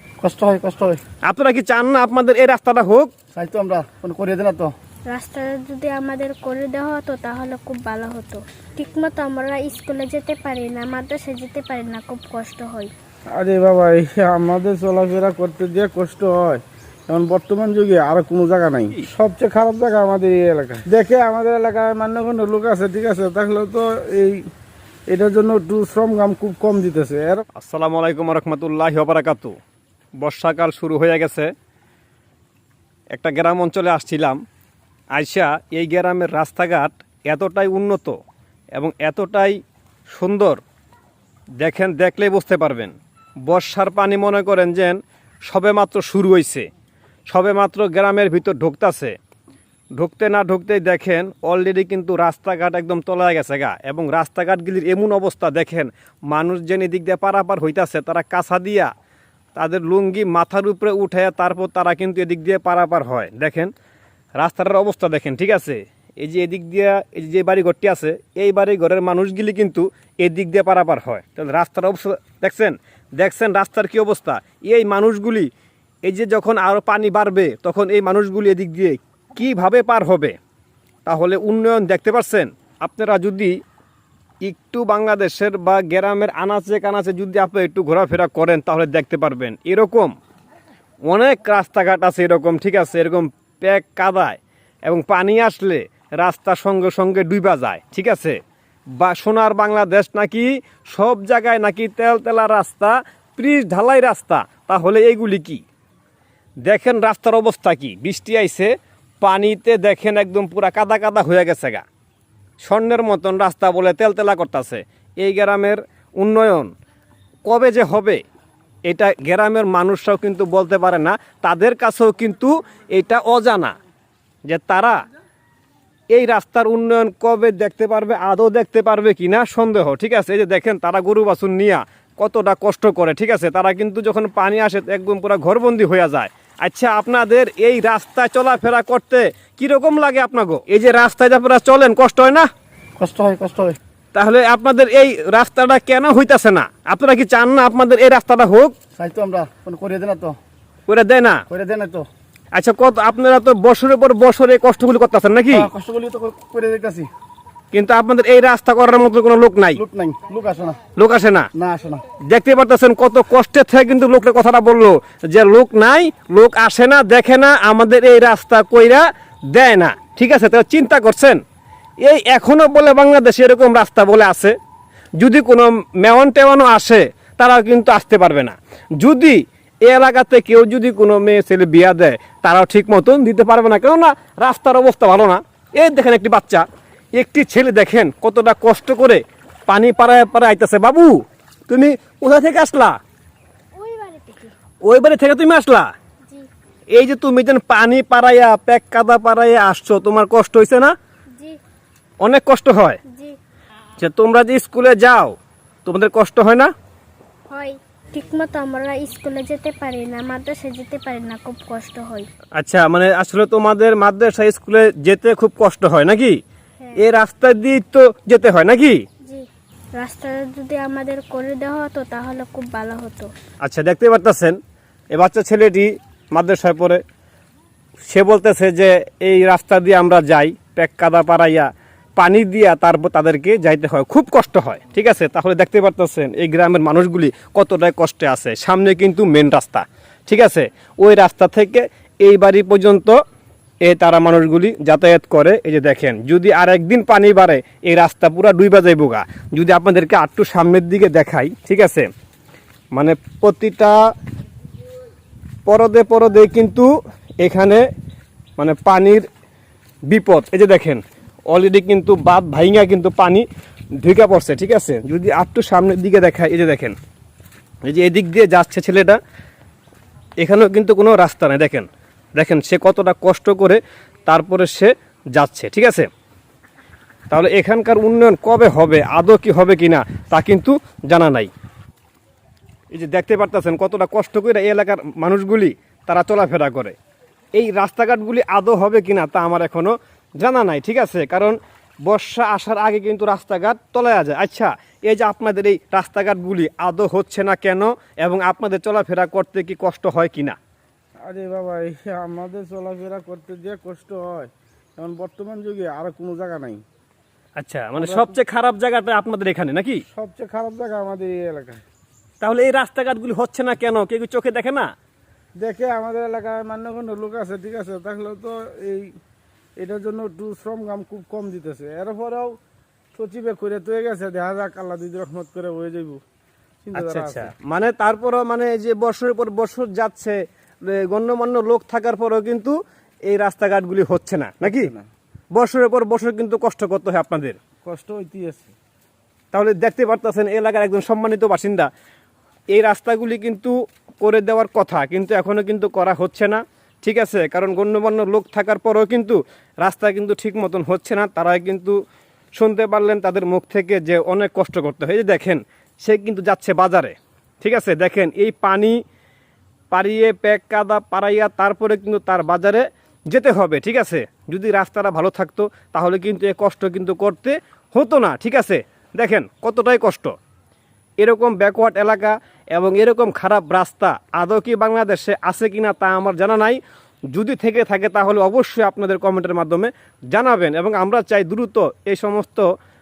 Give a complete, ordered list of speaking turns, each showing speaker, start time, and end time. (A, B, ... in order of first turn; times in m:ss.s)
0:00.2-0:01.0 A
0:01.2-0:03.1 B
0:03.3-0:04.7 A
0:05.1-0:12.9 C
0:13.4-0:24.4 D
0:25.1-0:27.4 D
0:27.6-0:29.5 B
0:30.2-0:31.5 B
0:33.1-0:34.4 B
0:35.2-0:38.2 B
0:38.8-0:40.6 B
0:41.6-0:42.9 B
0:43.5-0:46.7 B
0:47.3-0:49.1 B
0:50.0-0:58.9 B
0:59.6-1:03.7 B
1:04.4-1:15.5 B
1:16.0-1:20.4 B
1:21.1-1:23.6 B
1:24.4-1:30.1 B
1:31.1-1:38.4 B
1:39.0-1:45.6 B
1:46.7-1:51.8 B
1:52.6-1:56.7 B
1:57.5-1:58.2 B
1:58.9-2:03.8 B
2:04.5-2:05.0 B
2:06.1-2:22.5 B
2:23.0-2:23.8 A
2:24.1-2:28.8 B
2:29.0-2:30.4 A
2:30.9-2:31.4 B
2:31.5-2:32.1 A
2:32.5-2:35.7 B
2:35.5-2:37.1 A
2:37.7-2:39.8 B
2:39.8-2:40.8 A
2:41.0-2:41.5 B
2:41.5-2:42.0 A
2:42.3-2:51.4 B
2:52.0-2:54.6 B
2:55.2-3:06.6 B
3:07.2-3:13.0 B
3:13.8-3:14.5 C
3:14.8-3:15.9 B
3:16.9-3:21.0 B
3:22.2-3:23.0 B
3:23.1-3:23.4 C
3:24.0-3:26.7 B
3:27.5-3:32.3 C
3:32.6-3:36.4 B
3:37.0-3:39.0 B
3:39.3-3:43.3 C
3:43.6-3:44.6 B
3:45.1-3:47.0 B
3:48.0-4:03.2 B
4:03.8-4:12.1 B
4:12.9-4:14.0 B
4:15.7-4:17.8 B
4:18.6-4:19.3 B
4:20.1-4:23.4 B
4:24.0-4:27.0 B
4:27.8-4:29.2 B
4:30.4-4:36.1 B
4:37.3-4:41.5 B
4:42.9-4:47.0 B
4:47.6-5:00.6 B
5:01.3-5:06.8 D
5:07.6-5:10.0 B
5:08.0-5:08.4 D
5:10.1-5:11.8 D
5:12.4-5:14.9 B
5:15.6-5:19.1 D
5:19.8-5:22.6 D
5:23.2-5:26.2 D
5:26.8-5:27.5 D
5:27.0-5:32.8 B
5:33.3-5:34.9 B
5:34.6-5:35.1 D
5:35.5-5:37.6 B
5:37.8-5:38.7 D
5:39.5-5:41.9 B
5:42.7-5:52.0 B
5:52.6-5:59.0 B
5:59.9-6:10.3 B
6:11.2-6:16.8 B
6:17.3-6:22.6 B